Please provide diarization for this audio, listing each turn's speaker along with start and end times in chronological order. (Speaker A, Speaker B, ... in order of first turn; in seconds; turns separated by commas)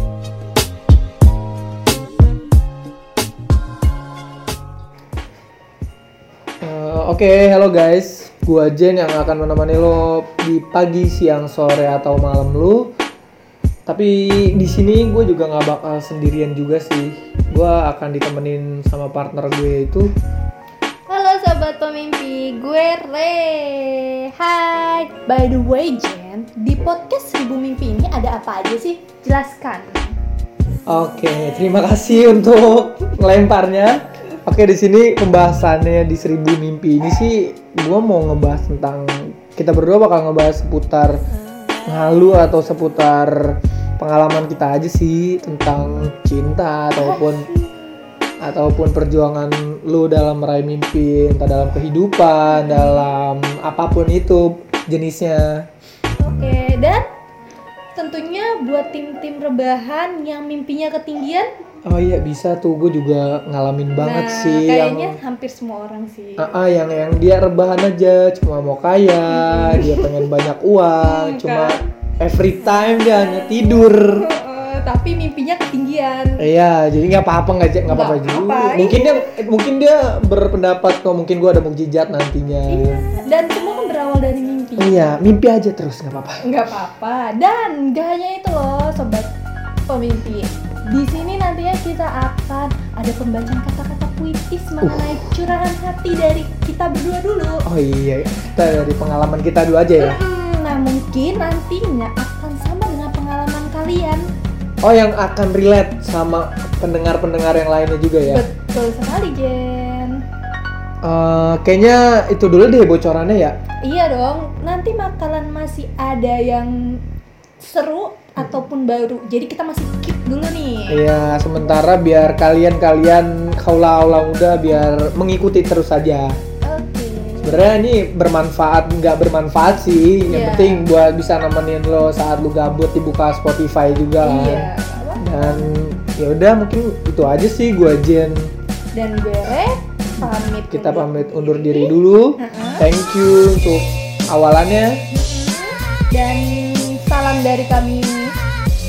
Speaker A: 6.6-12.9, Speaker A: 13.9-20.1, Speaker B: 21.1-30.1, Speaker A: 30.9-41.1, Speaker A: 41.9-47.5, Speaker B: 47.0-47.8, Speaker A: 48.4-55.7, Speaker B: 52.5-53.0, Speaker B: 56.2-57.0, Speaker B: 58.0-61.5, Speaker A: 61.9-65.2, Speaker B: 64.0-66.5, Speaker A: 66.4-74.2, Speaker B: 69.3-70.3, Speaker B: 71.0-71.8, Speaker B: 74.0-76.4, Speaker A: 76.4-83.0, Speaker B: 77.9-79.3, Speaker B: 82.7-85.1, Speaker A: 84.8-86.4, Speaker B: 86.4-89.3, Speaker B: 89.9-97.6, Speaker A: 94.8-95.2, Speaker A: 97.7-100.2, Speaker B: 100.0-104.3, Speaker A: 104.8-108.5, Speaker B: 108.2-110.2, Speaker A: 111.0-113.6, Speaker B: 113.8-117.0, Speaker B: 117.6-121.0, Speaker A: 120.9-126.4, Speaker B: 126.6-127.6, Speaker A: 127.4-138.5, Speaker B: 130.3-130.8, Speaker B: 134.2-135.6, Speaker B: 138.9-142.8, Speaker A: 140.7-144.9, Speaker B: 145.1-148.3